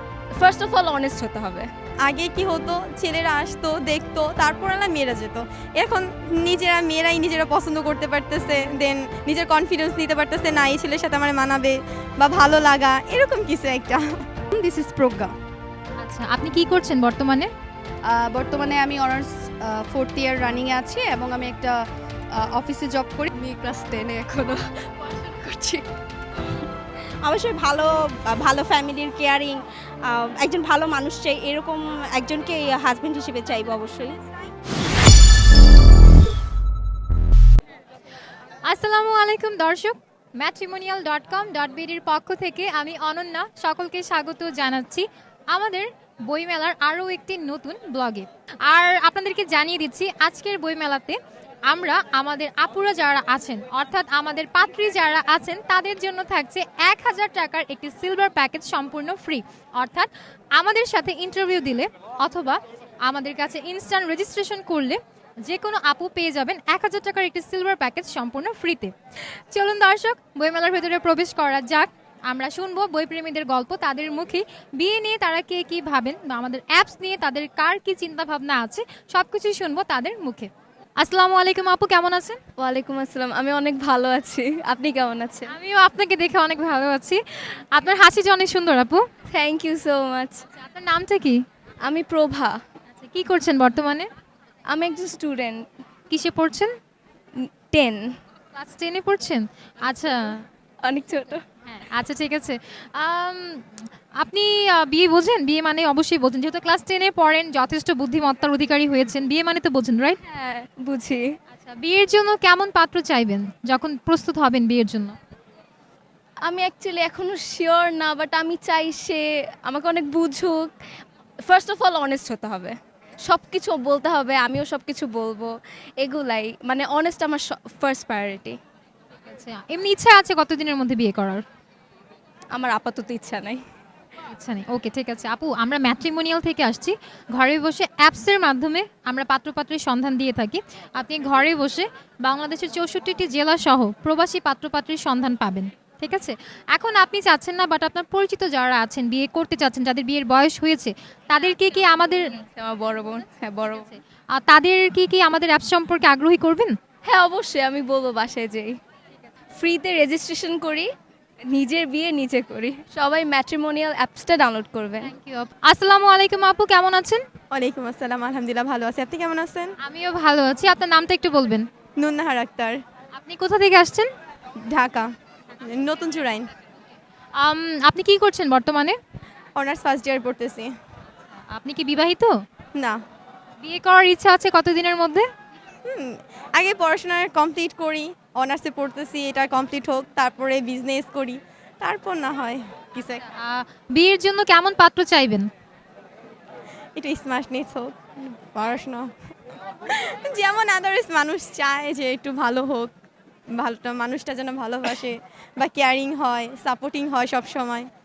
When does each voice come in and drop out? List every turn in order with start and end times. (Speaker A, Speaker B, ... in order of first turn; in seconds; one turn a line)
Speaker A: 0.4-1.7
Speaker B: 2.0-14.0
Speaker C: 14.5-15.3
Speaker D: 16.0-17.5
Speaker C: 18.1-21.8
Speaker C: 22.4-23.3
Speaker A: 23.4-24.5
Speaker A: 25.3-25.7
Speaker E: 27.2-34.2
Speaker D: 38.6-68.9
Speaker D: 69.5-82.4
Speaker A: 82.6-85.5
Speaker D: 85.5-87.2
Speaker D: 87.7-89.0
Speaker A: 89.3-90.4
Speaker D: 90.6-91.4
Speaker A: 91.8-92.6
Speaker D: 93.0-94.1
Speaker A: 94.7-95.6
Speaker D: 96.1-96.7
Speaker A: 97.7-98.1
Speaker D: 98.5-100.4
Speaker A: 100.8-101.4
Speaker D: 101.7-103.6
Speaker D: 104.2-110.2
Speaker A: 110.2-111.2
Speaker D: 111.5-115.1
Speaker A: 116.4-120.7
Speaker A: 121.5-122.7
Speaker A: 123.2-128.6
Speaker D: 129.3-131.4
Speaker A: 132.5-133.6
Speaker D: 134.2-152.2
Speaker A: 152.4-153.9
Speaker D: 154.3-156.7
Speaker A: 157.0-158.7
Speaker A: 159.6-160.9
Speaker A: 161.5-165.1
Speaker D: 165.0-167.2
Speaker B: 167.5-169.7
Speaker D: 169.8-171.7
Speaker B: 171.9-172.8
Speaker D: 173.2-174.1
Speaker B: 174.6-175.1
Speaker B: 175.6-176.5
Speaker D: 177.4-179.0
Speaker B: 179.6-180.7
Speaker D: 181.5-182.4
Speaker D: 183.6-185.3
Speaker B: 185.9-193.2
Speaker D: 193.3-195.5
Speaker B: 196.9-199.1
Speaker B: 199.9-202.9
Speaker B: 203.6-207.9